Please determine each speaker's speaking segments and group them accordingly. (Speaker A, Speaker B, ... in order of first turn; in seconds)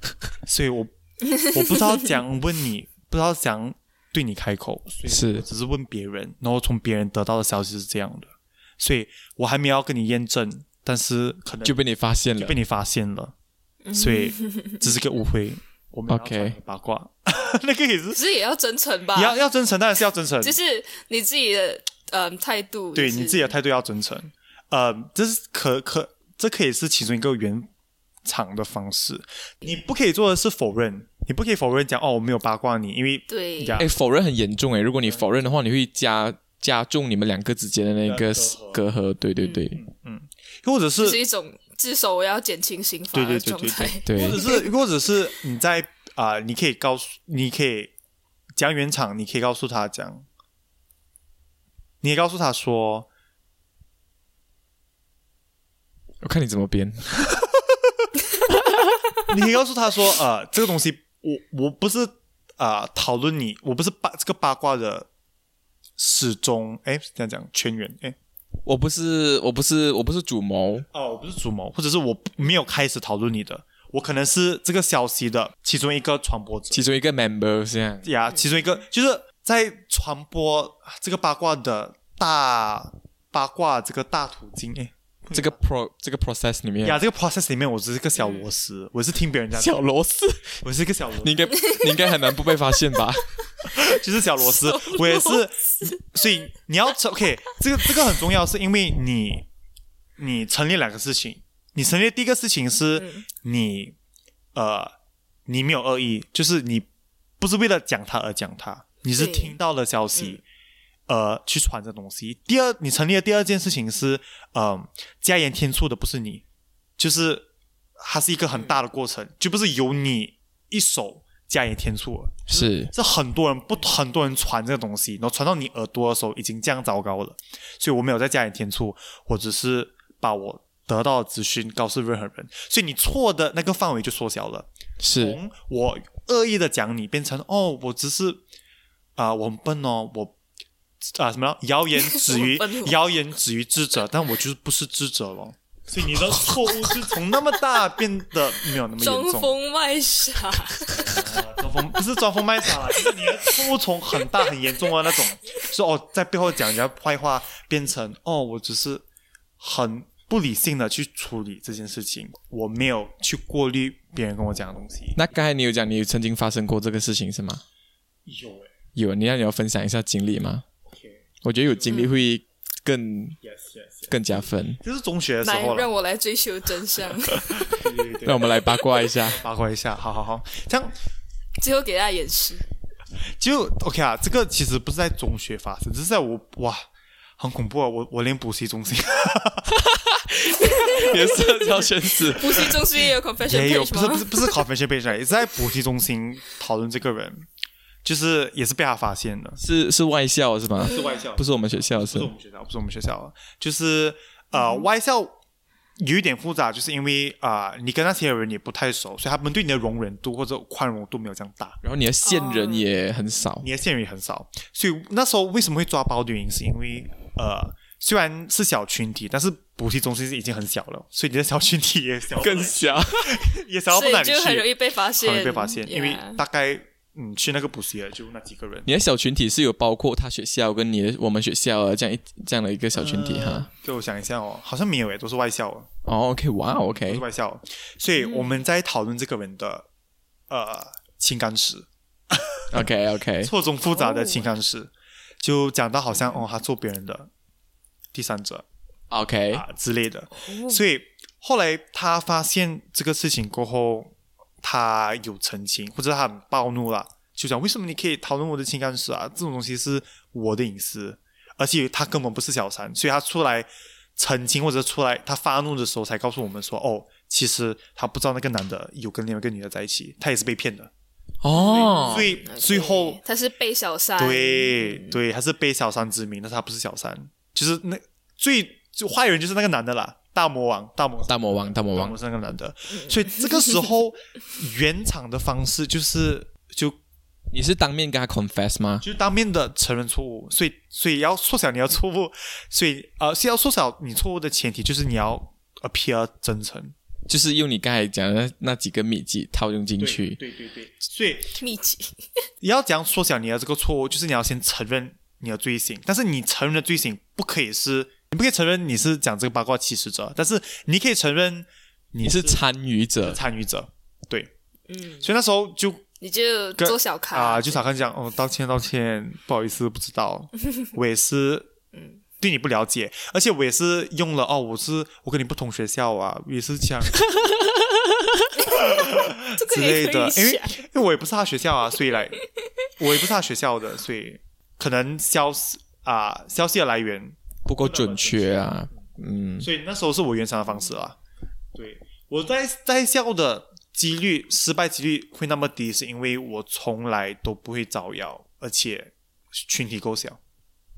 Speaker A: 0.4-11.8, 12.3-13.3, 13.9-18.2, 19.1-20.6, 22.9-27.7, 28.2-33.9, 38.0-38.8, 39.8-41.2, 43.1-47.9, 48.5-50.2, 52.0-53.1, 59.3-65.1, 66.0-68.2, 70.9-76.9, 78.0-85.6, 86.8-89.8, 90.6-91.4, 93.6-99.5, 100.2-104.0, 104.5-104.9, 105.5-106.9, 107.4-110.4, 111.1-116.4, 117.0-138.4, 139.2-140.3, 141.0-149.5, 150.9-159.1, 159.6-165.2, 168.2-168.7, 170.9-172.0, 173.4-174.2, 174.8-175.9, 177.6-180.9, 183.4-186.8, 187.4-189.8, 193.4-197.4, 198.0-199.6, 200.8-205.4, 206.0-211.8, 213.6-228.9, 232.9-235.9, 236.8-239.9, 240.5-242.9, 243.4-247.3, 248.1-248.6, 249.5-270.9, 271.5-273.2, 274.2-287.0, 289.0-296.9, 300.0-301.6, 302.6-312.6, 313.2-314.5, 315.2-316.0, 316.8-321.7, 322.4-327.3, 328.7-332.4, 333.0-338.7, 339.6-341.2, 341.7-350.4
Speaker B: 5.1-5.4, 11.6-12.6, 16.1-16.6, 33.8-39.8, 44.0-44.4, 56.2-57.2, 58.5-58.9, 68.6-70.8, 76.7-78.1, 85.3-87.0, 89.5-90.6, 91.2-93.2, 122.5-122.9, 135.0-135.4, 165.1-167.6, 168.9-170.6, 171.4-173.4, 174.1-174.8, 177.7-179.4, 189.7-192.7, 199.6-202.3, 211.8-213.7, 222.3-223.5, 228.8-233.7, 236.0-237.2, 242.7-243.5, 249.1-249.6, 271.4-272.3, 281.3-282.1, 287.5-289.0, 297.3-300.4, 312.2-313.4, 337.6-339.7
Speaker C: 13.8-14.9, 18.1-19.4, 20.4-23.5, 33.3-33.8, 39.4-39.7, 41.0-44.7, 88.2-88.5, 94.5-96.0, 103.0-103.2, 109.2-109.5, 142.0-142.9, 148.9-151.1, 153.0-153.5, 171.9-172.1, 175.4-177.7, 181.6-182.7, 190.6-194.6, 204.5-204.8, 212.2-212.9, 223.9-226.4, 238.2-238.6, 243.8-244.5, 246.1-246.4, 250.3-250.8, 271.5-275.2, 282.9-283.5, 301.6-302.4, 314.9-315.3, 316.2-317.8, 321.9-322.2, 328.6-330.8